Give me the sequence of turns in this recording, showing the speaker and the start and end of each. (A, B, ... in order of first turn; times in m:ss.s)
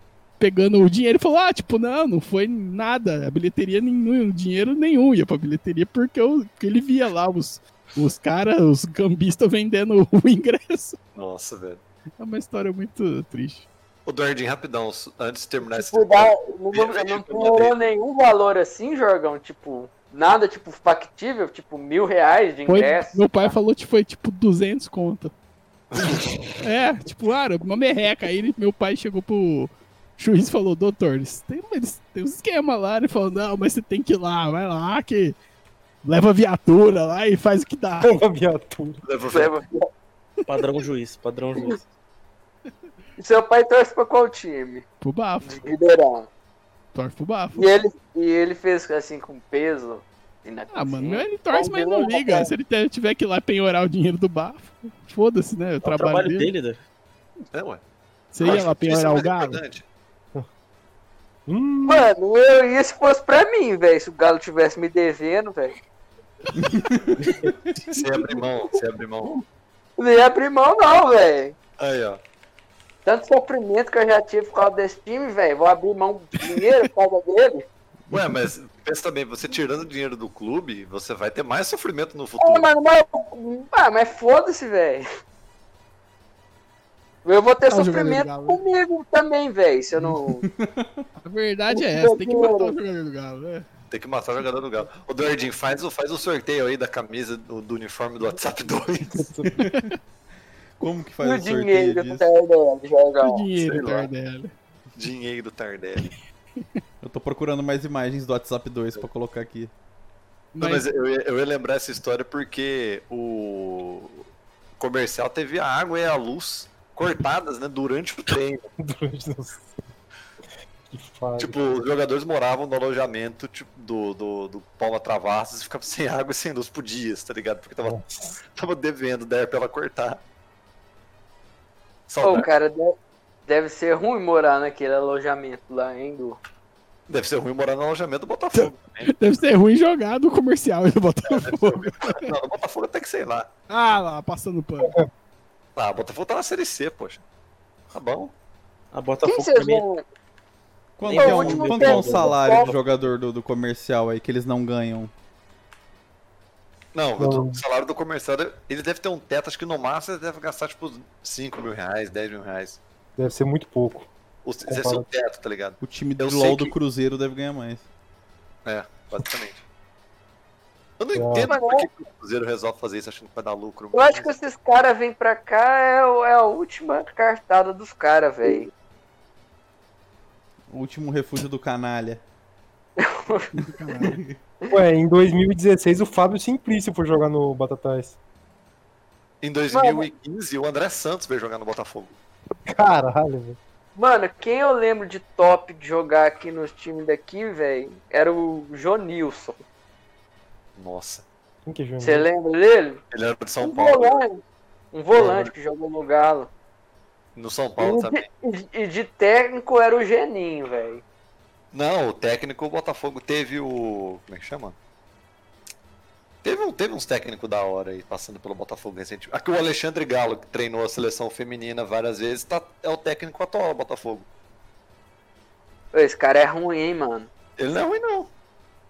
0:00.4-0:11.0 A
0:11.2-0:11.8 B
0:12.2-0:13.7 A
0:14.1-0:17.8 B
0:15.7-0:23.5 C
0:22.7-0:25.3 A
0:25.9-0:26.6 B
0:26.6-0:35.4 A
0:36.0-0:38.1 A
0:38.0-0:39.0 D
0:39.0-0:39.6 B
0:39.3-0:39.9 C
0:40.5-0:41.9 E
0:43.2-0:44.8 C
0:45.0-0:45.6 A
0:45.4-0:46.3 C
0:46.9-0:47.7 A
0:47.6-0:52.5 C
0:50.7-0:56.5 A
0:55.8-0:56.8 E
0:57.5-0:57.8 B
0:58.3-0:59.6 A
0:58.4-0:59.8 B
1:01.5-1:02.1 D
1:01.9-1:05.7 C
1:06.6-1:07.2 F
1:07.9-1:09.4 B
1:10.0-1:11.6 C
1:11.8-1:12.2 B
1:13.0-1:17.6 C
1:18.1-1:22.7 B
1:22.4-1:25.0 C
1:27.2-1:30.4 C
1:27.7-1:28.6 A
1:30.0-1:31.0 F
1:31.2-1:33.7 A
1:31.7-1:32.8 C
1:33.9-1:39.3 B
1:39.2-1:39.5 D
1:39.6-1:39.9 F
1:39.6-1:40.0 A
1:40.8-1:42.3 F
1:41.2-1:43.5 C
1:43.2-1:44.5 A
1:43.6-1:44.1 B
1:45.0-1:46.1 B
1:47.0-1:49.7 F
1:50.6-1:50.9 A
1:50.6-1:54.2 B
1:54.8-1:58.6 B
1:58.8-1:59.7 D
2:00.9-2:01.7 D
2:01.4-2:08.0 B
2:07.8-2:08.4 D
2:08.5-2:10.2 B
2:12.1-2:12.5 B
2:12.2-2:13.0 C
2:13.5-2:16.4 C
2:17.1-2:19.1 B
2:18.5-2:22.3 A
2:21.3-2:23.5 B
2:23.7-2:25.0 A
2:25.8-2:27.2 B
2:27.9-2:28.3 B
2:28.9-2:29.8 E
2:29.2-2:30.0 C
2:31.0-2:35.1 F
2:31.1-2:32.4 E
2:31.1-2:32.7 C
2:36.9-2:42.8 B
2:37.2-2:37.6 D
2:43.2-2:44.1 D
2:44.4-2:46.7 B
2:44.7-2:45.0 D
2:45.8-2:47.8 F
2:48.6-2:49.6 B
2:51.0-2:54.3 B
2:51.1-2:51.5 D
2:51.5-2:51.9 C
2:53.9-2:58.7 C
3:00.7-3:02.2 F
3:03.0-3:03.7 C
3:03.6-3:04.2 A
3:04.0-3:04.4 F
3:04.7-3:08.2 D
3:09.4-3:12.2 B
3:09.7-3:10.1 C
3:12.7-3:13.6 D
3:14.0-3:19.6 C
3:20.8-3:21.2 B
3:21.7-3:22.3 D
3:22.0-3:23.0 C
3:23.1-3:24.2 B
3:23.6-3:24.4 C
3:24.9-3:26.5 C
3:25.1-3:25.5 B
3:27.4-3:28.2 B
3:27.8-3:31.0 C
3:31.7-3:34.8 B
3:36.4-3:44.3 B
3:45.9-3:47.3 C
3:47.6-3:48.3 B